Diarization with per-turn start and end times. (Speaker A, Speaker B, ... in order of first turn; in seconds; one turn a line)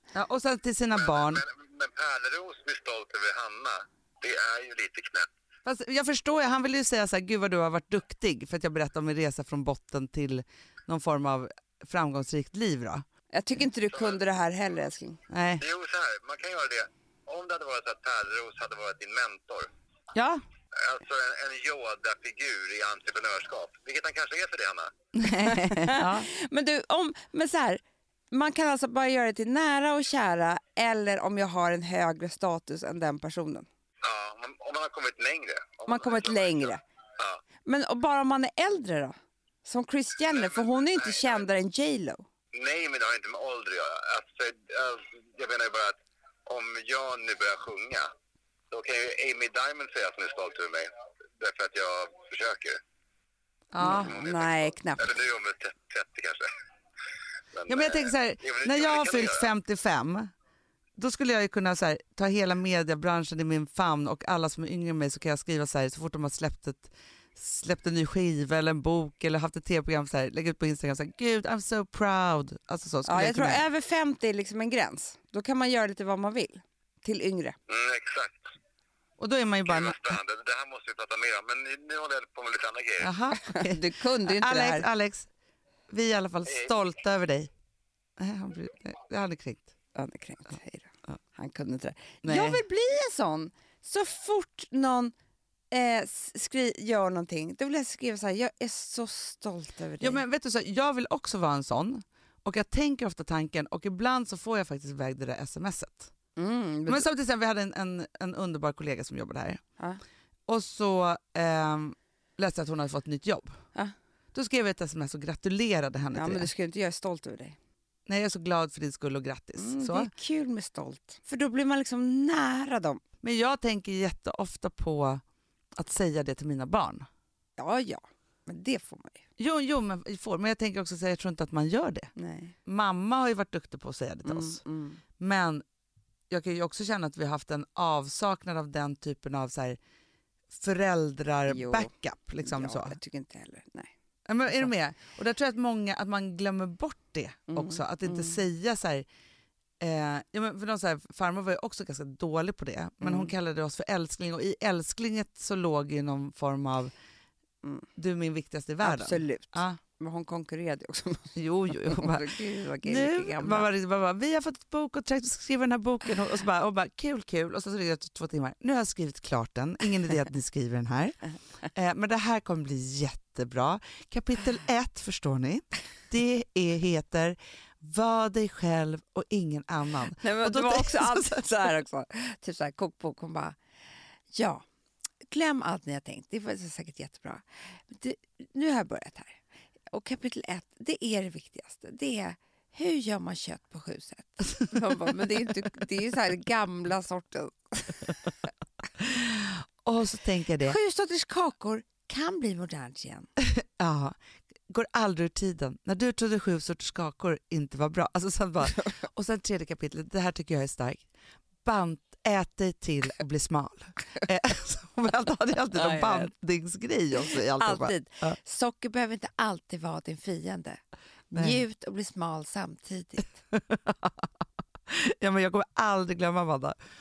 Speaker A: 0.1-1.4
Speaker B: 0.9-5.3
Speaker A: 5.7-13.0
Speaker C: 13.3-15.2
Speaker B: 13.9-14.2
Speaker A: 15.3-15.6
Speaker B: 15.6-19.7
Speaker A: 20.1-20.4
Speaker B: 20.8-24.9
Speaker A: 25.2-26.3
Speaker C: 25.4-33.7
Speaker B: 34.0-36.7
Speaker C: 35.9-36.8
Speaker C: 37.6-42.2
Speaker B: 40.3-41.4
Speaker B: 42.5-48.1
Speaker B: 48.7-52.8
Speaker A: 53.7-54.1
Speaker C: 53.8-55.1
Speaker B: 53.9-56.5
Speaker B: 57.5-59.5
Speaker A: 57.7-60.3
Speaker A: 61.0-73.6
Speaker C: 73.1-77.6
Speaker B: 77.7-78.4
Speaker A: 79.2-80.2
Speaker B: 79.7-83.1
Speaker A: 83.0-85.3
Speaker C: 83.4-84.9
Speaker A: 85.9-87.5
Speaker A: 88.2-89.7
Speaker C: 90.0-95.1
Speaker A: 92.2-92.6
Speaker C: 95.7-100.2
Speaker A: 100.0-106.1
Speaker C: 106.4-107.1
Speaker A: 106.9-109.6
Speaker A: 110.5-113.5
Speaker A: 114.3-116.5
Speaker C: 116.1-117.6
Speaker A: 118.1-120.1
Speaker C: 119.6-123.0
Speaker A: 123.2-125.2
Speaker A: 125.8-127.1
Speaker C: 127.6-129.2
Speaker A: 129.4-132.1
Speaker C: 132.2-132.6
Speaker A: 132.7-134.6
Speaker C: 134.2-135.0
Speaker A: 135.2-135.6
Speaker A: 136.3-139.8
Speaker A: 140.5-143.0
Speaker C: 141.5-143.9
Speaker A: 144.3-149.1
Speaker C: 147.5-148.4
Speaker A: 149.8-156.9
Speaker C: 153.0-153.3
Speaker A: 158.0-159.8
Speaker C: 158.8-163.7
Speaker A: 161.4-162.3
Speaker A: 162.8-171.2
Speaker A: 171.7-181.4
Speaker C: 180.2-183.6
Speaker C: 184.3-184.6
Speaker C: 185.3-189.4
Speaker C: 189.9-198.3
Speaker A: 199.0-200.8
Speaker C: 200.6-203.3
Speaker A: 203.4-204.2
Speaker A: 204.7-211.1
Speaker A: 211.7-218.4
Speaker C: 215.8-216.3
Speaker C: 217.5-220.8
Speaker C: 221.3-223.3
Speaker A: 223.5-224.3
Speaker A: 224.9-226.8